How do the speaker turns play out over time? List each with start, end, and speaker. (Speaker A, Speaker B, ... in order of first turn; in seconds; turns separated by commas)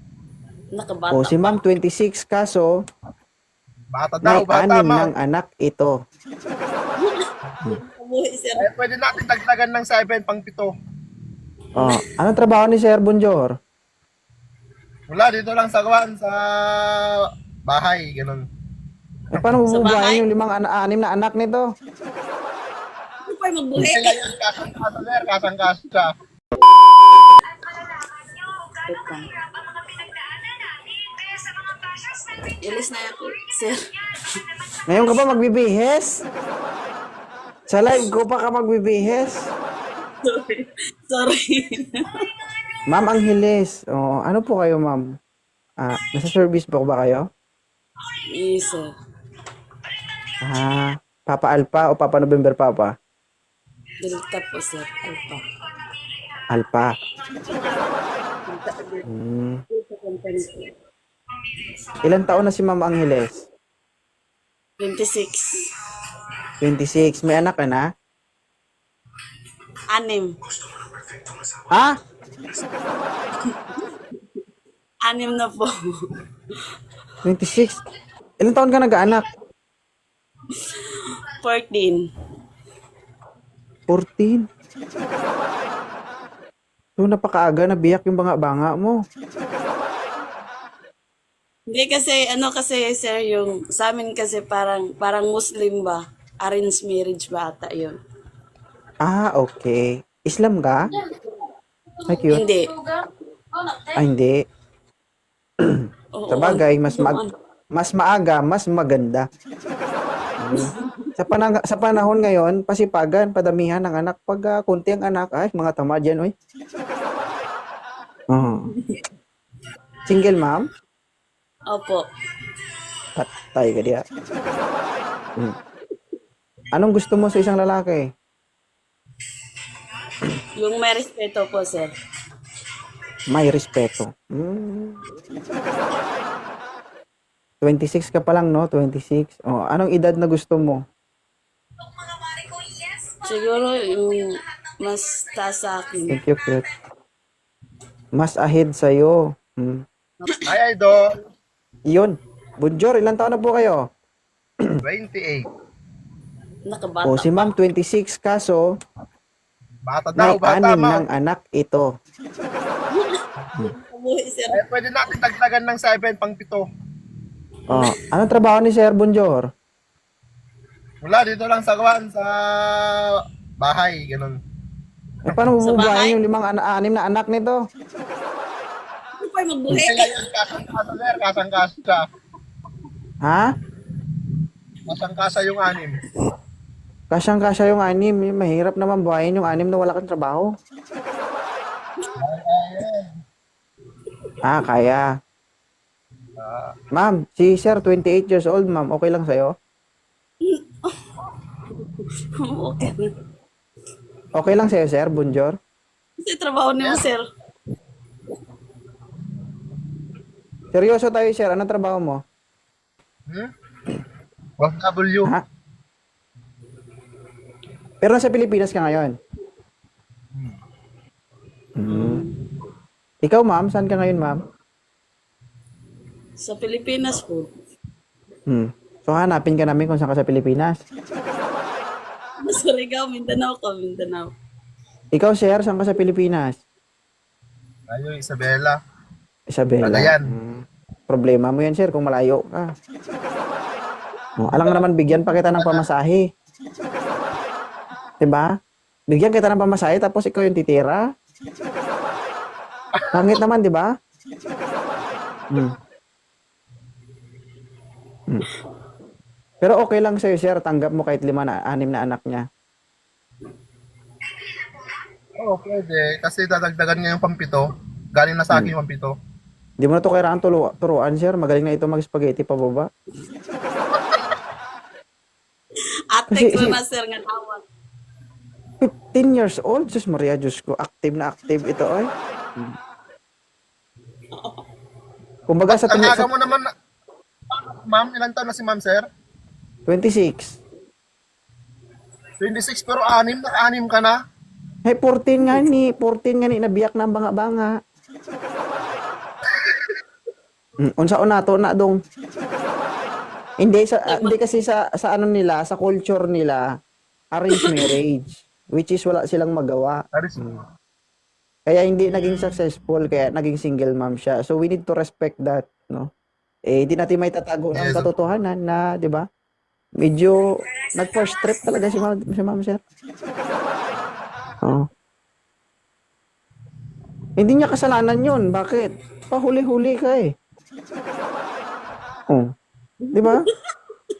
Speaker A: 0.7-1.5, Speaker B: 1.1-2.7, Speaker C: 3.9-5.1, Speaker B: 4.2-5.9, Speaker A: 7.0-8.7, Speaker C: 8.6-10.7, Speaker B: 11.8-13.5, Speaker C: 15.1-18.4, Speaker B: 19.3-21.6, Speaker A: 19.7-20.2, Speaker A: 23.3-24.4, Speaker C: 23.7-26.1, Speaker A: 27.6-34.8, Speaker B: 34.9-36.2, Speaker B: 37.7-39.4, Speaker A: 40.2-42.2, Speaker B: 42.9-45.0, Speaker B: 45.8-47.2, Speaker A: 48.4-48.9, Speaker B: 50.4-52.9, Speaker A: 54.0-55.5, Speaker B: 56.5-56.9, Speaker A: 58.5-59.0, Speaker B: 59.1-59.6, Speaker A: 59.7-60.7, Speaker B: 62.0-63.4, Speaker A: 64.8-65.9, Speaker B: 66.6-67.9, Speaker A: 69.9-70.4, Speaker B: 71.7-72.0, Speaker A: 73.4-73.9, Speaker A: 75.0-76.2, Speaker B: 77.2-77.8, Speaker B: 78.4-79.3, Speaker A: 80.5-82.0, Speaker B: 83.9-84.5, Speaker B: 87.0-89.0, Speaker A: 91.7-98.0, Speaker B: 99.0-100.9, Speaker B: 102.1-102.4, Speaker A: 102.2-103.1, Speaker A: 103.6-103.9, Speaker B: 103.9-104.4, Speaker B: 105.6-107.2, Speaker A: 106.1-107.3, Speaker B: 107.7-109.3, Speaker B: 110.4-116.3, Speaker A: 110.5-111.1, Speaker B: 118.3-118.7, Speaker A: 118.7-119.0, Speaker B: 120.0-120.7, Speaker A: 121.7-122.0, Speaker B: 123.2-124.0, Speaker B: 126.7-128.1, Speaker A: 130.5-131.9, Speaker B: 133.3-135.0, Speaker B: 137.6-140.8, Speaker A: 142.2-146.2, Speaker B: 146.1-146.7, Speaker B: 148.1-149.8, Speaker C: 150.4-151.2, Speaker B: 151.9-153.8, Speaker C: 154.8-155.5, Speaker A: 156.7-157.5, Speaker B: 157.0-158.7, Speaker C: 159.8-161.0, Speaker B: 160.2-161.9, Speaker A: 162.9-164.6, Speaker C: 164.5-166.7, Speaker B: 167.7-169.5, Speaker C: 171.0-174.4, Speaker B: 175.2-177.6, Speaker A: 175.6-176.2, Speaker A: 179.2-180.1, Speaker C: 179.7-182.0, Speaker B: 183.2-183.5, Speaker C: 184.8-186.0, Speaker B: 187.1-190.5, Speaker C: 192.2-193.1, Speaker B: 194.4-195.1, Speaker C: 196.4-196.7, Speaker B: 196.9-199.5, Speaker A: 200.4-200.9, Speaker A: 201.7-203.1, Speaker B: 204.3-205.6, Speaker A: 206.2-207.2, Speaker C: 206.8-207.1, Speaker B: 210.7-212.2, Speaker C: 214.6-215.3, Speaker B: 218.0-219.2, Speaker B: 221.8-222.3, Speaker A: 221.9-222.4, Speaker B: 223.2-224.4, Speaker A: 226.4-227.5, Speaker B: 228.5-230.8, Speaker A: 232.4-234.3, Speaker B: 235.1-236.6, Speaker C: 237.9-238.8, Speaker B: 239.5-242.7, Speaker C: 239.8-240.3, Speaker B: 244.4-246.2, Speaker C: 245.6-245.8, Speaker B: 248.2-248.5, Speaker B: 249.1-251.0, Speaker B: 253.1-253.9, Speaker B: 259.6-262.4, Speaker C: 265.4-269.1, Speaker B: 269.8-272.9, Speaker A: 276.1-277.6, Speaker B: 276.3-276.8, Speaker B: 278.8-282.8, Speaker A: 284.3-284.6, Speaker B: 285.5-286.3, Speaker C: 285.7-286.7, Speaker C: 287.5-289.1, Speaker B: 289.9-290.6, Speaker C: 292.4-294.2, Speaker B: 294.8-297.7, Speaker B: 300.8-302.0, Speaker B: 303.6-306.6, Speaker A: 304.1-304.4, Speaker B: 307.3-310.6, Speaker A: 307.5-307.9, Speaker C: 310.1-310.6, Speaker B: 311.7-316.1, Speaker B: 316.7-319.2, Speaker C: 317.7-318.1, Speaker B: 320.0-322.8, Speaker B: 324.6-324.9, Speaker B: 327.4-330.3, Speaker A: 333.0-333.5, Speaker B: 333.1-333.5